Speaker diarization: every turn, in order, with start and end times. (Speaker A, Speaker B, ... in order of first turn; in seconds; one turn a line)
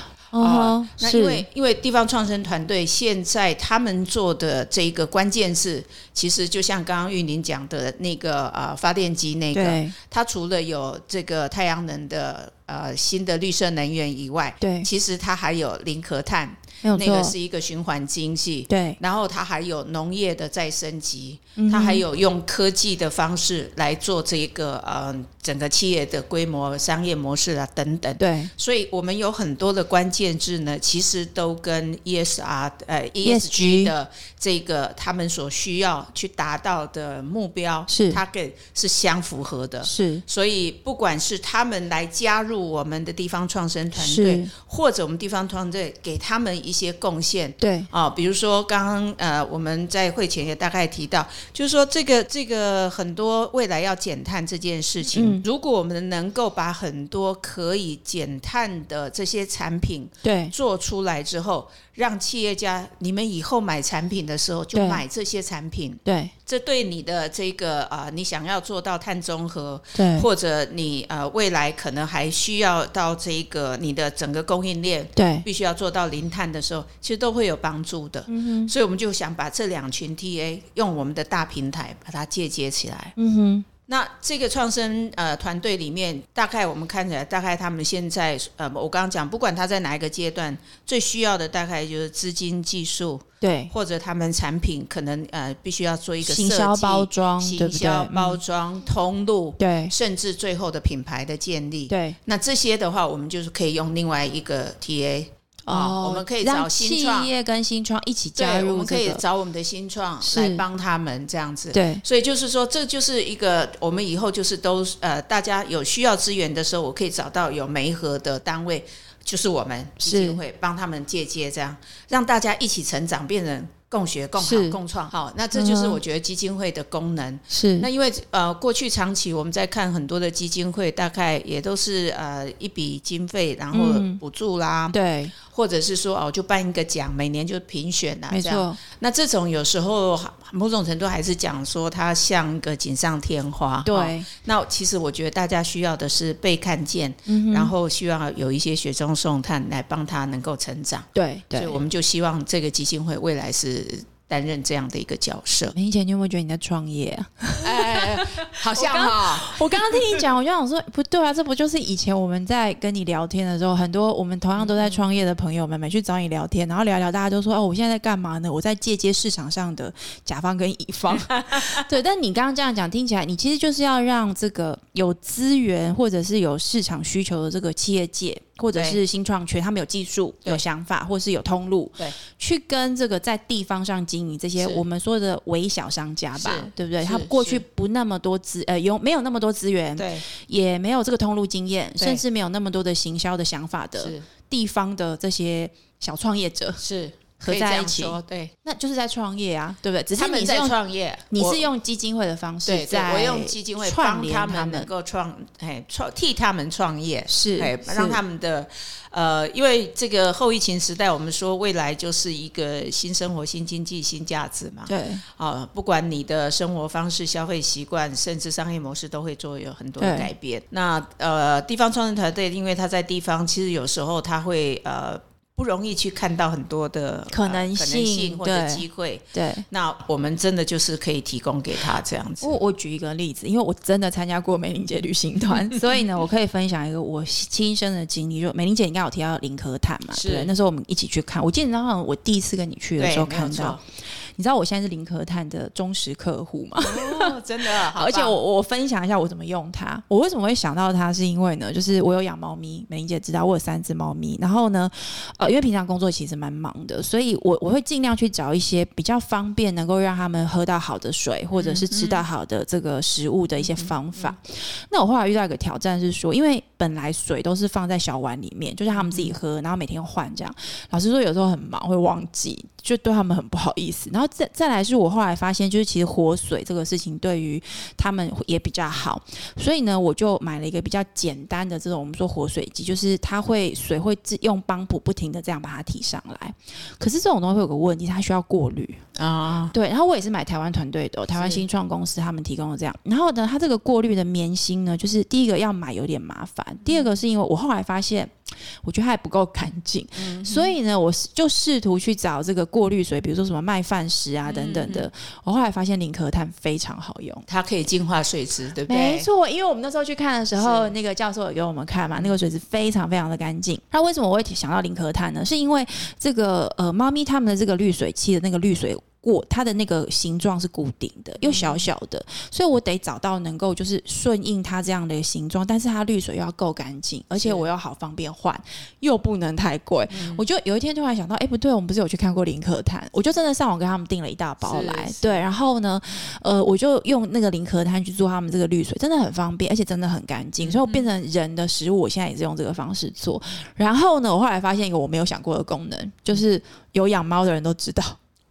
Speaker A: 0.3-1.4
Speaker B: 0.4-83.1
Speaker A: 9.5-9.9
Speaker A: 14.6-14.9
Speaker A: 16.8-17.3
Speaker A: 18.7-19.0
Speaker A: 21.6-22.0
Speaker A: 28.2-28.5
Speaker A: 33.2-33.9
Speaker A: 37.9-38.2
Speaker A: 39.8-40.2
Speaker A: 43.9-44.5
Speaker A: 47.6-47.9
Speaker A: 55.1-55.4
Speaker A: 60.2-60.5
Speaker A: 64.7-65.0
Speaker A: 66.0-66.3
Speaker A: 69.9-70.3
Speaker A: 75.2-75.5
Speaker A: 78.3-78.7
Speaker A: 83.2-83.7
Speaker B: 83.9-107.3
Speaker A: 93.4-93.7
Speaker A: 96.2-98.4
Speaker A: 99.6-99.9
Speaker A: 101.9-102.2
Speaker A: 105.7-109.2
Speaker B: 108.3-155.7
Speaker A: 110.2-110.6
Speaker A: 111.7-112.0
Speaker A: 120.0-120.4
Speaker A: 124.4-124.8
Speaker A: 125.5-126.0
Speaker A: 127.5-127.9
Speaker A: 133.7-134.2
Speaker A: 134.9-135.3
Speaker A: 138.3-138.8
Speaker A: 143.8-144.3
Speaker A: 147.3-147.7
Speaker A: 151.1-151.8
Speaker A: 155.7-196.8
Speaker B: 157.6-160.2
Speaker B: 164.6-165.0
Speaker B: 171.1-171.8
Speaker B: 178.7-179.0
Speaker B: 184.6-184.8
Speaker B: 186.3-187.6
Speaker B: 190.0-190.2
Speaker B: 194.0-194.2
Speaker B: 196.8-198.5
Speaker A: 197.4-200.8
Speaker B: 200.1-201.7
Speaker A: 201.3-204.9
Speaker B: 202.7-232.5
Speaker A: 207.3-208.2
Speaker A: 214.9-215.2
Speaker A: 220.0-220.3
Speaker A: 227.3-229.6
Speaker A: 232.4-243.8
Speaker B: 235.6-236.0
Speaker B: 240.1-240.5
Speaker B: 243.0-243.8
Speaker A: 244.3-289.0
Speaker B: 246.8-248.4
Speaker B: 261.5-262.2
Speaker B: 263.6-264.4
Speaker B: 268.9-269.4
Speaker B: 289.1-289.7
Speaker A: 289.7-307.4
Speaker B: 291.3-291.6
Speaker B: 300.2-300.7
Speaker B: 304.4-305.1
Speaker B: 307.5-309.3
Speaker A: 308.9-348.2
Speaker B: 310.6-310.9
Speaker B: 321.4-321.9
Speaker B: 327.4-327.7
Speaker B: 330.1-330.4
Speaker B: 334.6-335.4
Speaker B: 340.6-341.1